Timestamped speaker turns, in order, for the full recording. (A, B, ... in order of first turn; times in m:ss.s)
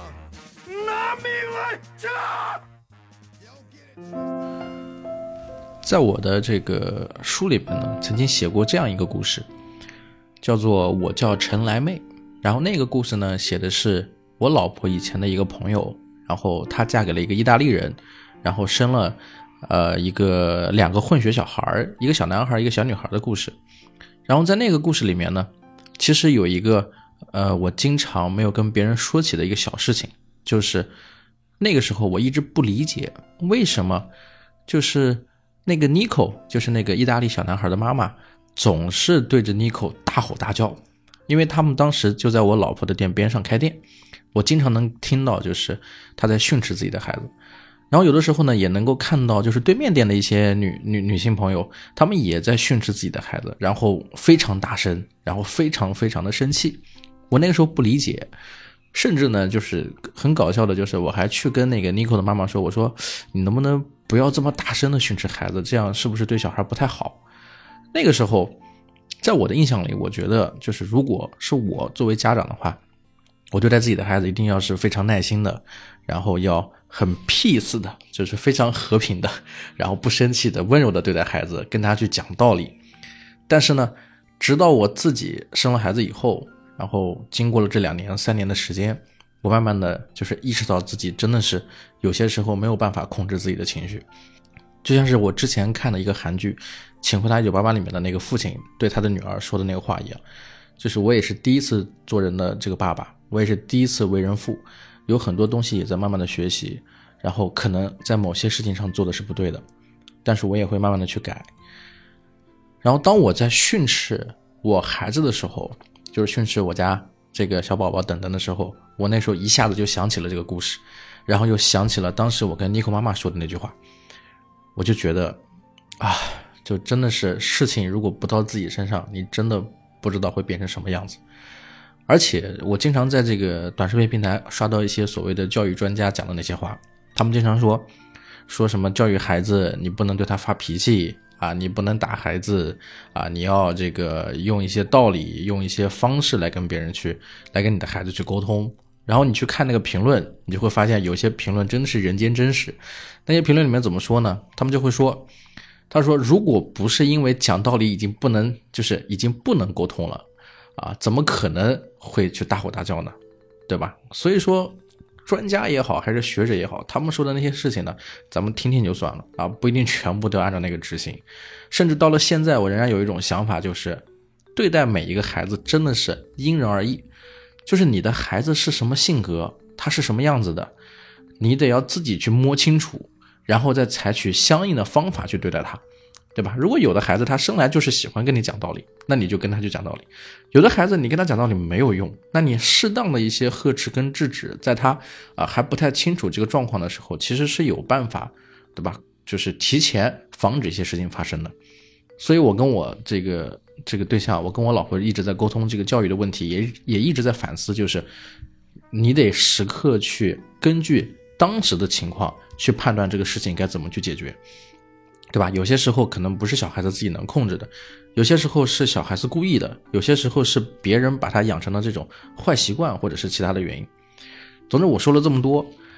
0:00.8-0:01.8 A
0:05.8-0:09.5 A
0:10.4-0:23.6 A
0:24.2-0:30.9 A
0:31.6-0:34.1 A
0:34.7-0:43.8 A
0:44.3-0:47.3 A
0:47.9-0:58.3 A
0:58.9-1:07.2 A
1:07.9-1:08.6 A
1:09.2-1:12.8 A
1:13.5-1:22.8 A
1:23.5-1:34.0 A
1:34.8-1:40.2 A
1:40.8-1:49.6 A
1:50.2-1:51.5 A
1:52.8-2:03.8 A
2:04.8-2:05.4 A
2:06.0-2:11.2 A
2:12.1-2:17.9 A
2:18.5-2:35.3 A
2:35.9-2:40.2 A
2:40.8-2:43.2 A
2:43.7-2:54.0 A
2:54.6-2:57.0 A
2:57.6-3:00.7 A
3:01.4-3:05.8 A
3:06.3-3:21.5 A
3:22.2-3:28.1 A
3:28.9-3:34.4 A
3:35.3-3:43.9 A
3:44.7-3:45.7 A